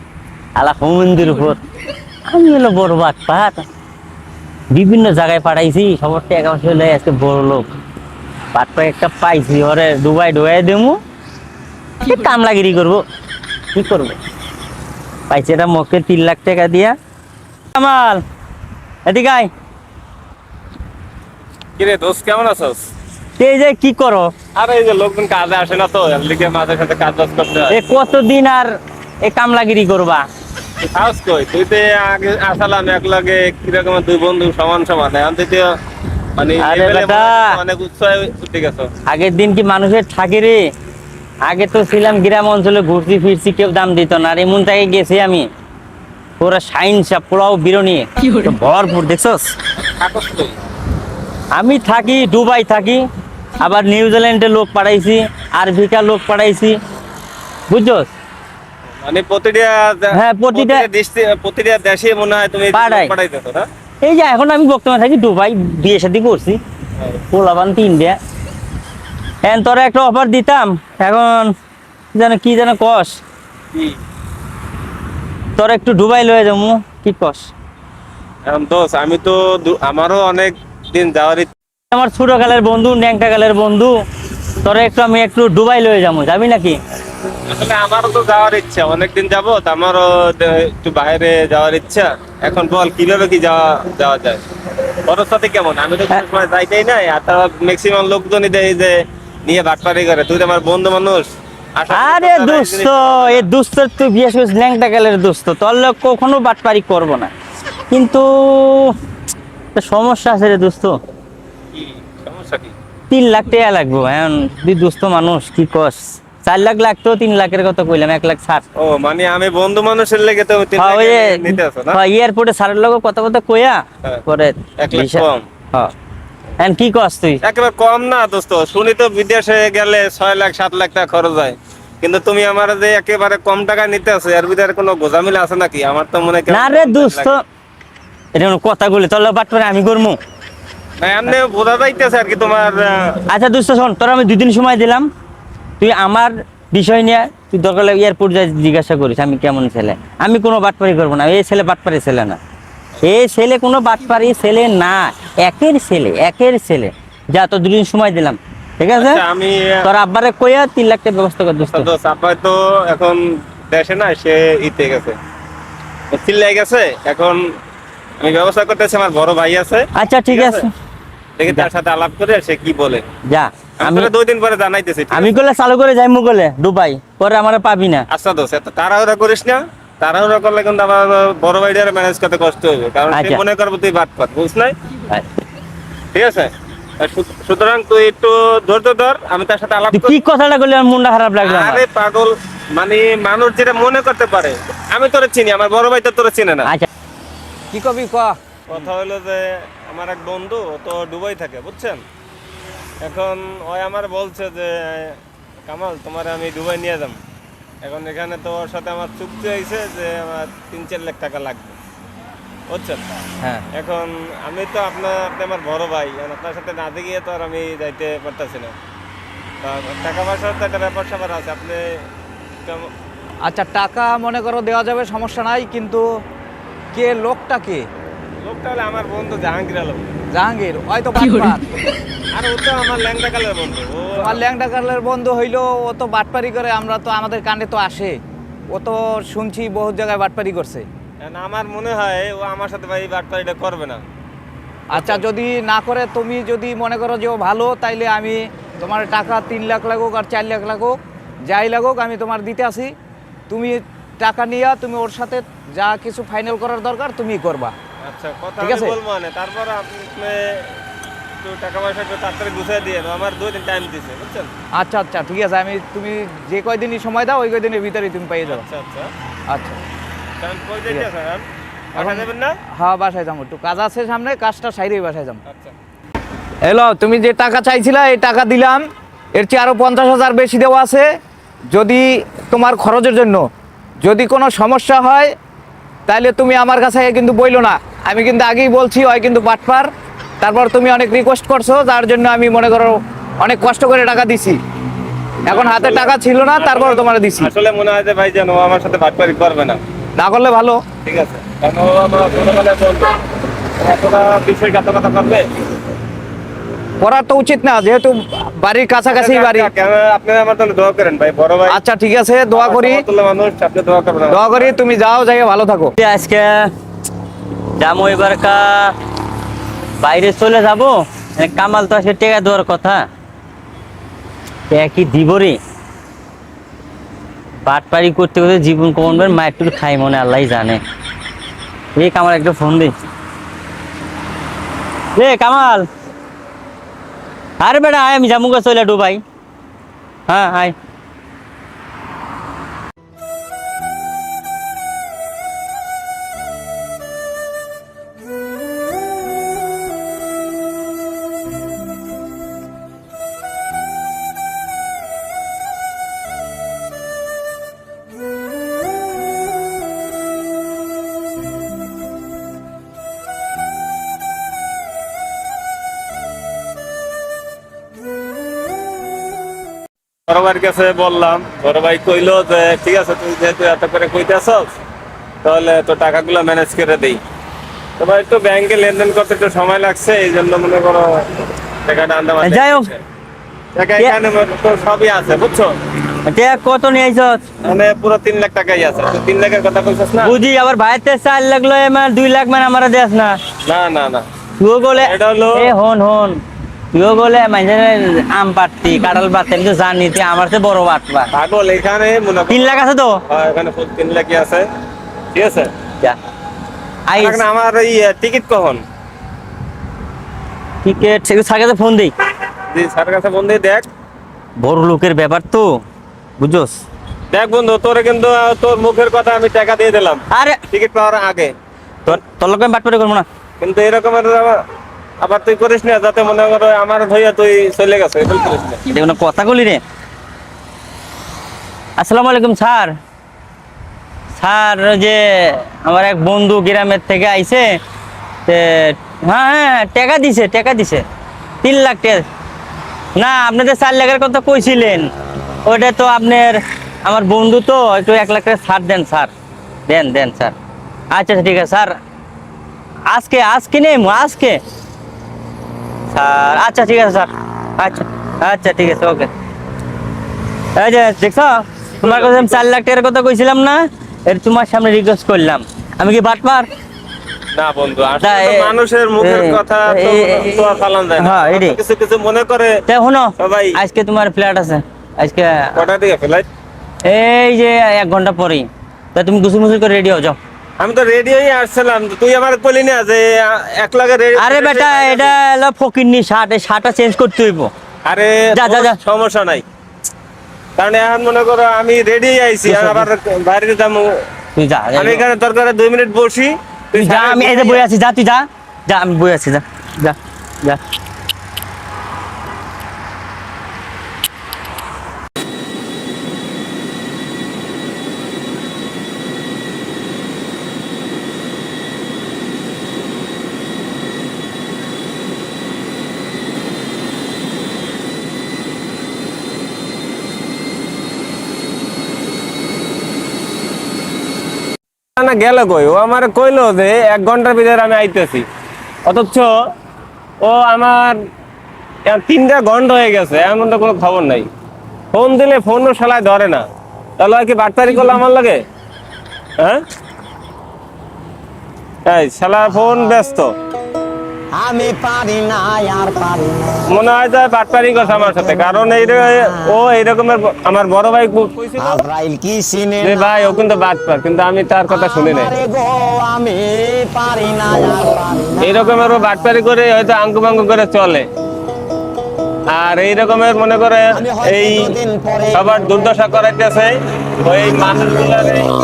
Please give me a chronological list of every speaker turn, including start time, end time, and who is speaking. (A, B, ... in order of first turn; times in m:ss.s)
0:00.6-0:01.6 A
0:02.3-0:03.6 A
0:04.7-0:07.7 A
0:08.5-0:11.0 A
0:12.0-0:13.0 A
0:13.7-0:14.2 A
0:15.3-0:17.0 A
0:17.7-0:18.2 A
0:19.0-0:19.5 A
0:21.8-0:22.8 B
0:23.4-0:24.3 A
0:24.5-0:27.8 B
0:27.7-0:28.7 A
0:29.2-0:30.2 A
0:30.8-0:35.7 B
0:36.4-0:38.9 B
0:36.6-0:37.6 A
0:39.0-0:40.6 A
0:41.4-0:45.4 A
0:46.4-0:49.5 A
0:50.0-0:50.5 B
0:51.5-0:53.0 A
0:53.6-0:56.8 A
0:57.7-0:58.1 A
0:59.0-1:03.7 B
1:00.1-1:00.9 A
1:02.7-1:03.1 A
1:04.0-1:06.6 A
1:07.3-1:08.2 A
1:09.4-1:11.5 A
1:12.1-1:13.2 A
1:15.6-1:17.5 A
1:18.5-1:21.5 B
1:21.9-1:23.9 A
1:24.6-1:26.8 A
1:27.5-1:34.4 B
1:35.0-1:43.5 B
1:41.9-1:47.3 A
1:47.9-1:48.9 A
1:49.7-1:51.0 A
1:51.7-1:52.7 B
1:53.1-1:58.6 A
1:58.8-2:02.0 B
2:00.8-2:05.9 A
2:04.8-2:05.4 B
2:06.6-2:07.4 A
2:07.4-2:17.3 B
2:16.5-2:17.4 A
2:18.3-2:20.2 A
2:21.0-2:23.2 B
2:23.3-2:25.1 A
2:25.8-2:32.4 A
2:33.0-2:39.2 A
2:39.0-2:39.8 B
2:39.8-2:41.9 A
2:41.6-2:45.2 B
2:46.1-2:47.4 B
2:48.2-2:50.6 B
2:49.9-2:50.7 A
2:51.4-2:53.0 B
2:53.3-2:54.1 A
2:53.8-2:55.4 B
2:55.1-2:58.0 A
2:58.1-3:04.8 B
3:03.1-3:03.4 A
3:06.1-3:10.2 B
3:09.9-3:11.8 A
3:11.4-3:16.7 B
3:17.7-3:18.4 C
3:18.7-3:22.0 B
3:23.0-3:27.2 B
3:27.8-3:31.8 B
3:32.7-3:33.0 B
3:33.7-3:38.7 B
3:39.6-3:42.0 B
3:42.6-3:42.9 B
3:43.4-3:46.1 C
3:46.9-3:47.9 C
3:48.4-3:50.1 B
3:50.3-3:51.7 C
3:52.3-3:54.3 B
3:54.2-3:58.2 C
3:58.7-4:00.9 C
4:01.2-4:04.0 B
4:04.9-4:12.9 C
4:04.9-4:05.2 B
4:13.5-4:17.7 C
4:18.0-4:20.8 B
4:18.6-4:18.9 C
4:21.4-4:24.5 B
4:24.8-4:28.6 C
4:28.4-4:29.1 B
4:29.5-4:29.8 C
4:30.4-4:32.6 B
4:32.0-4:35.4 C
4:35.4-4:35.7 B
4:36.6-4:41.1 C
4:41.7-4:43.4 C
4:44.0-4:45.3 C
4:46.1-4:49.9 C
4:50.4-4:54.6 C
4:55.5-4:57.5 C
4:55.5-4:59.8 B
5:00.2-5:00.8 C
5:01.0-5:03.1 B
5:03.8-5:05.5 B
5:07.0-5:09.7 C
5:09.1-5:11.8 B
5:11.7-5:13.0 C
5:12.5-5:14.7 B
5:14.3-5:15.9 C
5:16.0-5:16.7 A
5:17.8-5:18.9 A
5:20.0-5:23.0 A
5:24.7-5:25.6 A
5:27.6-5:30.8 A
5:32.0-5:32.9 A
5:35.2-5:35.8 A
5:37.6-5:39.2 A
5:40.3-5:40.7 A
6:10.3-6:14.7 B
6:15.4-6:17.2 B
6:18.0-6:23.0 B
6:22.4-6:22.9 A
6:23.8-6:25.7 B
6:26.2-6:27.4 A
6:27.6-6:30.4 B
6:30.2-6:33.4 A
6:33.6-6:34.2 B
6:34.6-6:36.4 A
6:35.0-6:35.7 B
6:36.9-6:41.3 A
6:41.3-6:44.6 B
6:42.5-6:43.2 A
6:45.3-6:45.7 B
6:47.1-6:47.4 A
6:47.1-6:48.8 B
6:50.8-6:52.1 A
6:52.7-6:53.9 B
6:54.6-6:55.8 A
6:56.4-6:56.8 A
6:57.3-7:01.5 B
7:00.3-7:00.6 A
7:02.0-7:03.2 A
7:03.6-7:04.6 B
7:05.2-7:08.8 B
7:08.9-7:09.8 A
7:12.0-7:12.9 A
7:14.4-7:17.7 A
7:18.5-7:21.0 A
7:21.6-7:22.2 A
7:23.2-7:25.1 A
7:25.6-7:29.3 A
7:29.9-7:30.5 A
7:31.1-7:31.9 A
7:33.1-7:34.6 A
7:36.1-7:39.3 A
7:40.8-7:46.7 A
7:42.0-7:42.7 B
7:47.5-7:52.8 B
7:48.2-7:51.8 A
7:52.9-7:55.8 A
7:53.4-7:53.8 B
7:55.7-7:56.4 B
7:57.0-8:00.4 A
8:00.8-8:05.3 B
8:04.4-8:07.7 A
8:08.1-8:09.6 B
8:08.5-8:09.0 A
8:10.8-8:14.1 B
8:12.6-8:13.0 A
8:14.6-8:15.2 A
8:14.9-8:17.8 B
8:16.9-8:20.8 A
8:45.2-8:48.4 B
8:49.0-8:49.5 B
8:50.4-8:51.2 B
8:52.0-8:54.5 B
8:55.1-8:56.6 B
8:57.2-8:58.6 B
9:02.0-9:03.5 B
9:04.5-9:06.8 D
9:06.9-9:12.0 B
9:11.8-9:13.5 D
9:13.0-9:15.5 B
9:14.9-9:18.6 D
9:18.6-9:21.3 B
9:22.7-9:25.0 B
9:24.1-9:25.8 D
9:25.5-9:28.7 B